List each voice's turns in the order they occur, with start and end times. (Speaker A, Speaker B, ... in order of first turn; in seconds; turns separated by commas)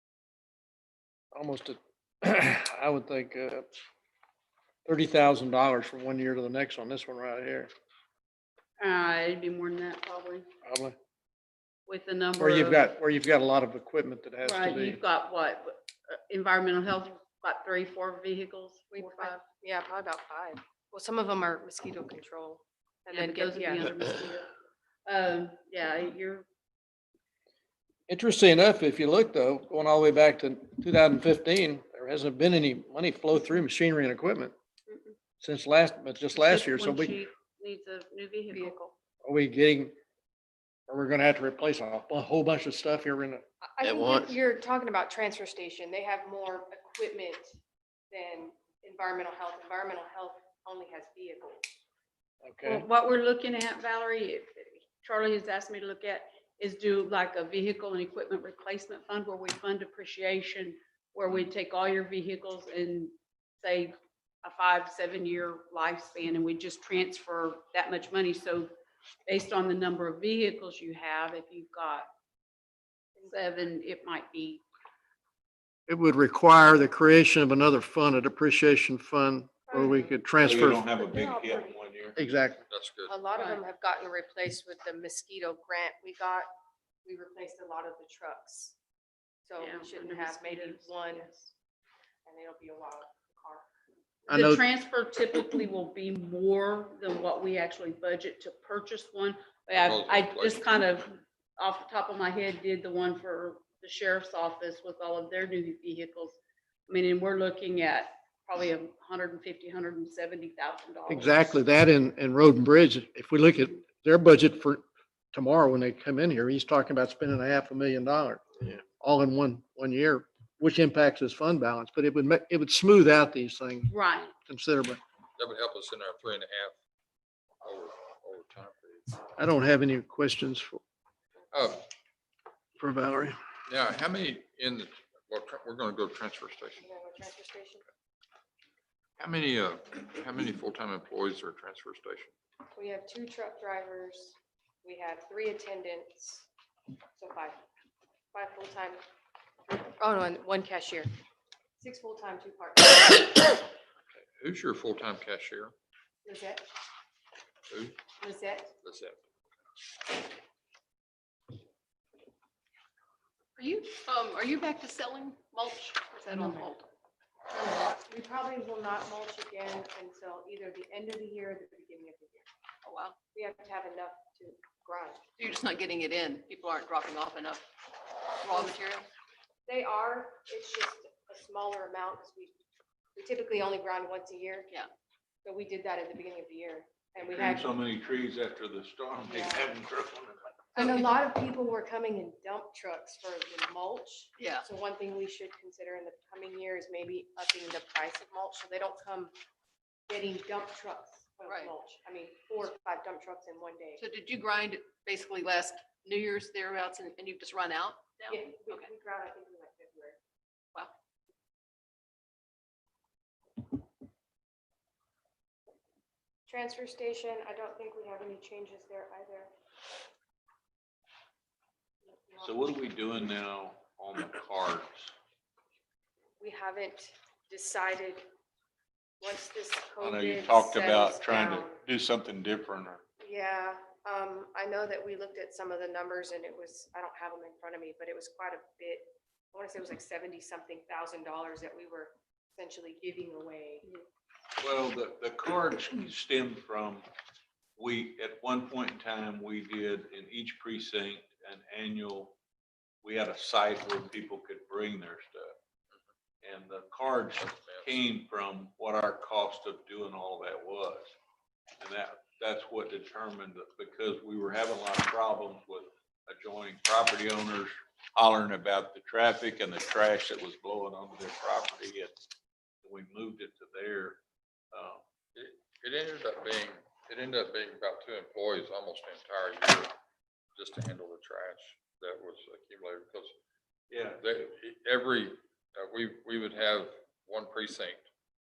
Speaker A: 1.3-3.7, Speaker A: 4.9-7.7, Speaker B: 8.8-10.5, Speaker A: 10.7-10.9, Speaker B: 11.9-12.9, Speaker A: 12.4-15.0, Speaker B: 14.4-19.4, Speaker C: 18.9-23.9, Speaker B: 23.1-24.5, Speaker B: 25.1-26.5, Speaker A: 28.1-34.5, Speaker A: 35.4-37.2, Speaker B: 36.4-38.9, Speaker C: 38.5-38.9, Speaker A: 39.2-39.9, Speaker A: 40.9-43.4, Speaker C: 43.6-47.6, Speaker C: 48.1-51.7, Speaker A: 52.4-52.9, Speaker B: 52.6-68.7, Speaker B: 69.3-72.1, Speaker B: 73.2-74.6, Speaker A: 75.9-80.8, Speaker C: 79.7-81.8, Speaker D: 80.4-82.2, Speaker A: 82.2-82.6, Speaker E: 82.7-83.2, Speaker C: 83.1-86.5, Speaker B: 83.3-83.6, Speaker C: 87.0-88.8, Speaker C: 89.5-91.3, Speaker B: 89.6-91.5, Speaker C: 92.3-93.7, Speaker B: 94.3-106.4, Speaker A: 94.3-94.6, Speaker E: 99.8-100.6, Speaker B: 106.9-111.6, Speaker A: 111.1-123.9, Speaker B: 123.9-124.3, Speaker A: 124.5-125.0, Speaker E: 125.4-126.8, Speaker E: 127.6-129.2, Speaker A: 129.4-130.8, Speaker E: 131.5-131.8, Speaker A: 132.8-133.4, Speaker E: 133.7-136.8, Speaker C: 136.8-137.8, Speaker E: 139.2-142.3, Speaker C: 142.8-146.5, Speaker C: 147.2-147.6, Speaker C: 148.3-149.0, Speaker C: 149.7-151.1, Speaker C: 151.8-153.5, Speaker E: 154.4-155.7, Speaker C: 156.2-156.6, Speaker E: 157.7-158.0, Speaker C: 158.2-158.7, Speaker E: 158.8-159.2, Speaker F: 163.6-166.8, Speaker B: 166.3-166.7, Speaker C: 167.5-172.5, Speaker F: 172.8-173.2, Speaker C: 173.3-175.2, Speaker F: 175.4-177.7, Speaker F: 178.4-179.1, Speaker C: 179.7-182.6, Speaker C: 183.2-184.7, Speaker C: 185.4-187.8, Speaker D: 187.2-190.8, Speaker C: 189.2-189.8, Speaker F: 190.8-191.1, Speaker C: 190.8-199.3, Speaker F: 194.4-194.7, Speaker C: 200.1-204.0, Speaker F: 201.5-201.7, Speaker F: 204.0-208.9, Speaker C: 208.3-210.2, Speaker C: 216.5-219.5, Speaker C: 222.1-222.7, Speaker D: 222.4-225.1, Speaker C: 226.4-228.2, Speaker C: 229.2-231.8, Speaker D: 230.0-233.0, Speaker C: 233.2-243.9, Speaker D: 244.6-247.1, Speaker D: 247.8-252.3, Speaker D: 253.0-255.5, Speaker D: 256.4-261.1, Speaker E: 257.4-257.9, Speaker D: 261.8-272.2, Speaker D: 272.8-274.2, Speaker D: 274.7-275.0, Speaker E: 275.4-279.9, Speaker E: 280.6-283.4, Speaker D: 283.9-284.2, Speaker E: 284.2-288.1